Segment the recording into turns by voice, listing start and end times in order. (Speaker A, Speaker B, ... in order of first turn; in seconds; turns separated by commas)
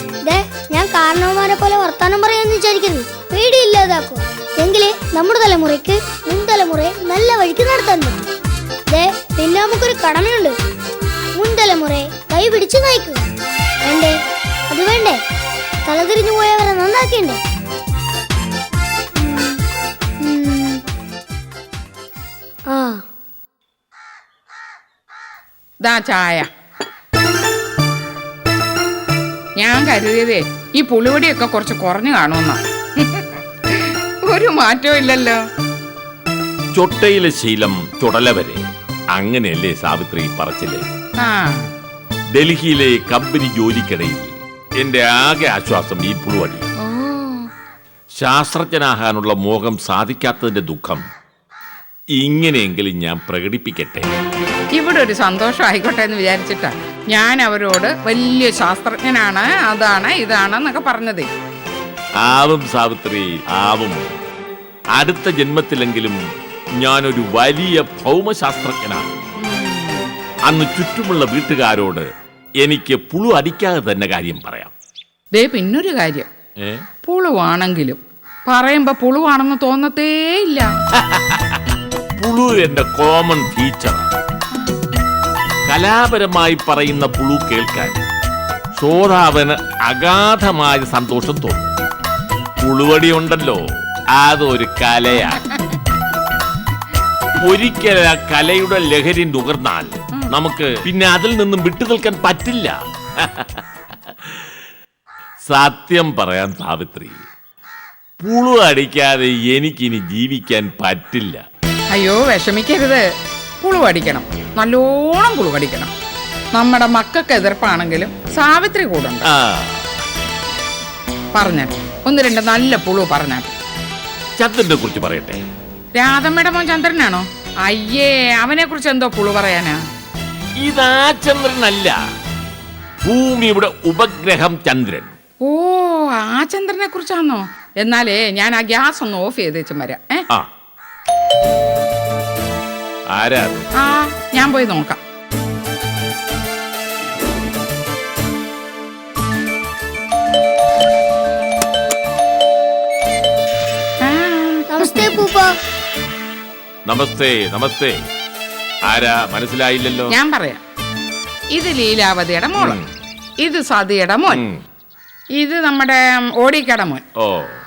Speaker A: 0.2-8.3, Speaker A: 8.9-10.6, Speaker A: 11.3-13.3, Speaker A: 13.8-14.1, Speaker A: 14.7-15.2, Speaker A: 15.8-17.4, Speaker A: 19.2-19.6, Speaker A: 20.2-20.8, Speaker A: 22.7-23.0, Speaker B: 25.8-26.5, Speaker B: 29.6-35.4, Speaker C: 36.7-38.6, Speaker C: 39.1-40.8, Speaker B: 41.2-41.7, Speaker C: 42.3-46.7, Speaker B: 46.8-47.5, Speaker C: 48.1-51.0, Speaker C: 52.2-54.1, Speaker B: 54.7-61.3, Speaker C: 62.2-64.0, Speaker C: 65.0-66.2, Speaker C: 66.8-69.2, Speaker B: 69.4-70.1, Speaker C: 70.5-72.1, Speaker C: 72.6-74.7, Speaker B: 75.3-76.3, Speaker C: 76.6-76.8, Speaker B: 77.0-80.7, Speaker C: 81.0-81.6, Speaker C: 82.2-84.1, Speaker C: 85.7-88.0, Speaker C: 88.7-91.7, Speaker C: 92.6-93.6, Speaker C: 94.1-95.5, Speaker C: 97.4-103.6, Speaker C: 105.5-107.2, Speaker C: 108.2-111.4, Speaker B: 111.9-113.0, Speaker B: 113.6-115.9, Speaker B: 116.5-119.3, Speaker C: 119.3-119.9, Speaker B: 121.3-123.5, Speaker C: 124.4-125.4, Speaker B: 126.0-129.8, Speaker C: 130.6-131.9, Speaker C: 133.0-135.2, Speaker B: 135.4-140.2, Speaker C: 143.1-143.7, Speaker B: 143.8-145.0, Speaker B: 154.0-155.1, Speaker A: 154.7-155.5, Speaker C: 156.8-157.9, Speaker C: 158.9-160.1, Speaker B: 160.1-160.6, Speaker B: 161.5-162.8, Speaker C: 162.6-162.9, Speaker B: 163.4-164.4, Speaker C: 164.3-164.6, Speaker B: 165.4-167.0, Speaker C: 167.2-167.5